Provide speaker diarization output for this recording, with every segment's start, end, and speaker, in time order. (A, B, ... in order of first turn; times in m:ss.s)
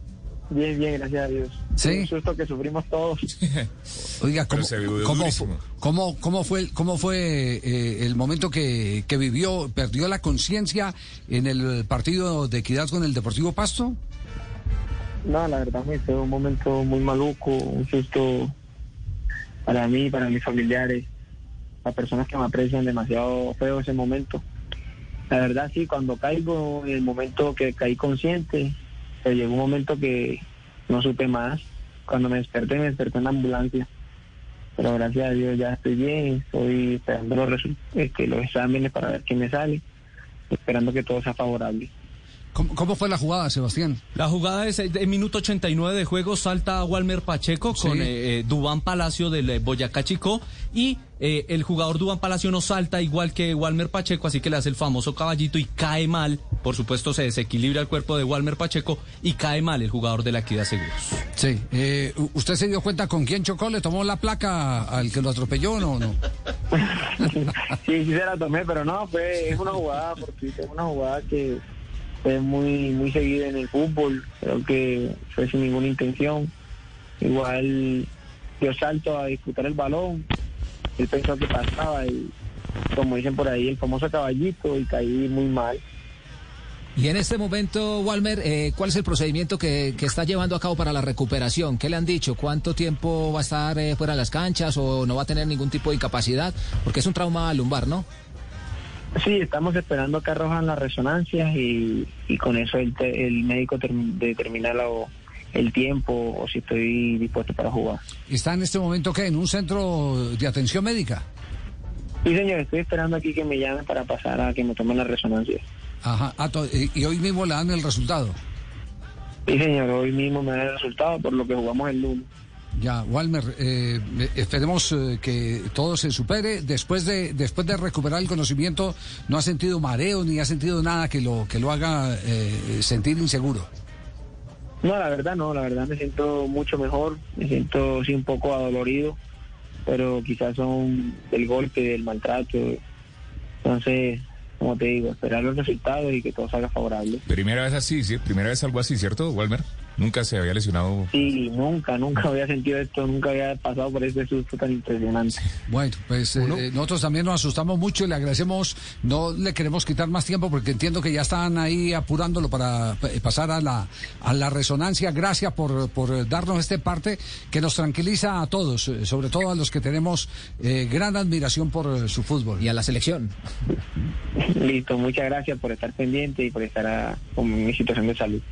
0:00.5-0:03.3 A
0:01.8-0:02.1 B
0:04.2-0:14.0 B
0:04.5-0:05.6 C
0:15.2-0:18.5 A
0:19.7-0:21.1 A
0:21.8-0:24.4 A
0:25.3-0:33.9 A
0:34.8-0:39.8 A
0:40.5-0:41.9 A
0:42.6-0:44.0 B
0:44.2-1:01.2 D
0:47.7-0:48.1 B
1:01.4-1:06.2 B
1:06.8-1:11.6 A
1:12.2-1:16.5 A
1:17.2-1:18.1 A
1:18.6-1:20.3 A
1:21.0-1:22.3 A
1:22.9-1:25.8 A
1:27.0-1:38.1 E
1:39.2-1:48.0 A
1:48.3-1:51.2 B
1:52.2-1:55.6 A
1:56.0-1:58.4 B
1:59.5-2:02.3 A
2:02.8-2:13.7 B
2:14.8-2:19.2 A
2:19.9-2:22.8 A
2:23.6-2:27.2 A
2:27.3-2:31.1 C
2:31.1-2:35.4 A
2:35.7-2:52.6 B
2:52.6-2:53.3 E
2:54.4-2:58.4 A